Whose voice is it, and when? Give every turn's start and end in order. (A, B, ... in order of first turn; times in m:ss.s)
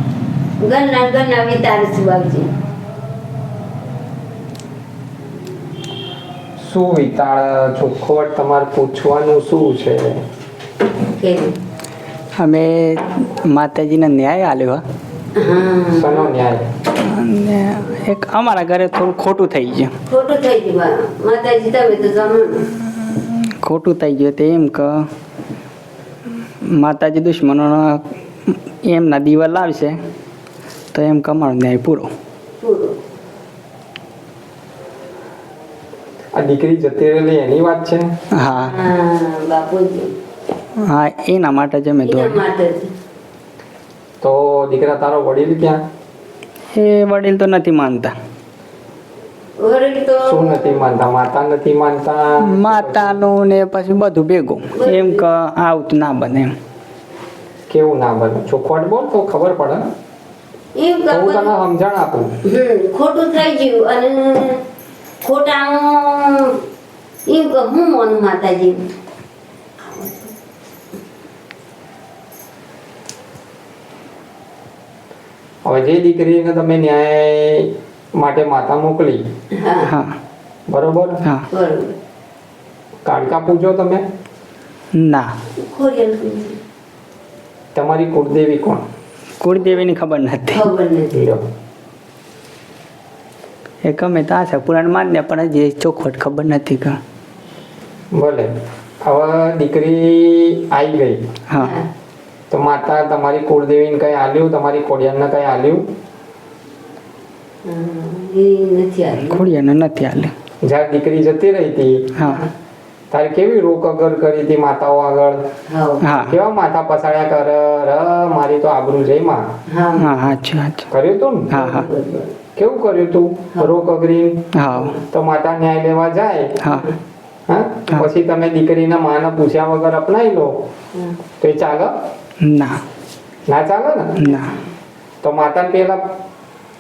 0:00.6-0:02.5 A
0:06.6-0:10.2 B
0:11.1-0:11.5 A
0:12.4-0:14.8 C
0:15.4-0:16.3 A
0:15.9-0:16.7 B
0:17.0-0:19.9 C
0:20.1-0:22.7 A
0:23.0-0:25.1 C
0:26.6-0:30.0 C
0:30.9-0:32.1 C
0:32.6-0:33.0 A
0:36.3-0:38.1 B
0:38.3-0:38.7 C
0:38.6-0:40.2 A
0:40.8-0:42.4 C
0:42.0-0:42.9 A
0:44.2-0:45.8 B
0:46.7-0:48.1 C
0:49.6-0:50.8 A
0:50.2-0:53.2 B
0:52.4-0:56.6 C
0:54.7-0:55.2 A
0:57.7-0:59.9 B
1:00.8-1:01.5 A
1:01.1-1:02.4 B
1:02.4-1:04.6 A
1:05.2-1:06.6 A
1:07.3-1:08.9 A
1:09.8-1:10.3 A
1:15.6-1:19.3 B
1:19.5-1:19.9 A
1:19.8-1:20.2 C
1:20.7-1:21.2 B
1:21.5-1:22.0 A
1:23.0-1:24.0 B
1:24.9-1:25.3 C
1:25.6-1:26.6 A
1:27.8-1:28.8 B
1:29.4-1:30.7 C
1:30.5-1:31.2 A
1:31.1-1:31.4 B
1:33.8-1:37.0 C
1:38.1-1:41.2 B
1:41.5-1:41.8 C
1:41.6-1:41.9 A
1:42.5-1:45.9 B
1:47.6-1:49.5 A
1:49.3-1:50.3 C
1:50.6-1:52.1 B
1:52.2-1:52.5 C
1:52.2-1:52.5 A
1:53.1-1:55.5 B
1:55.7-1:56.1 A
1:56.0-1:56.4 C
1:56.3-1:59.5 B
1:59.7-2:00.1 A
2:00.0-2:00.9 C
2:00.9-2:01.5 B
2:01.5-2:01.9 C
2:01.5-2:02.3 A
2:02.6-2:04.5 B
2:04.5-2:05.0 C
2:04.7-2:05.0 A
2:05.1-2:06.6 B
2:06.6-2:06.9 C
2:07.5-2:10.6 B
2:11.4-2:11.9 B
2:12.4-2:12.8 C
2:13.5-2:14.2 B
2:14.2-2:14.6 C
2:14.2-2:14.6 A
2:15.2-2:16.1 B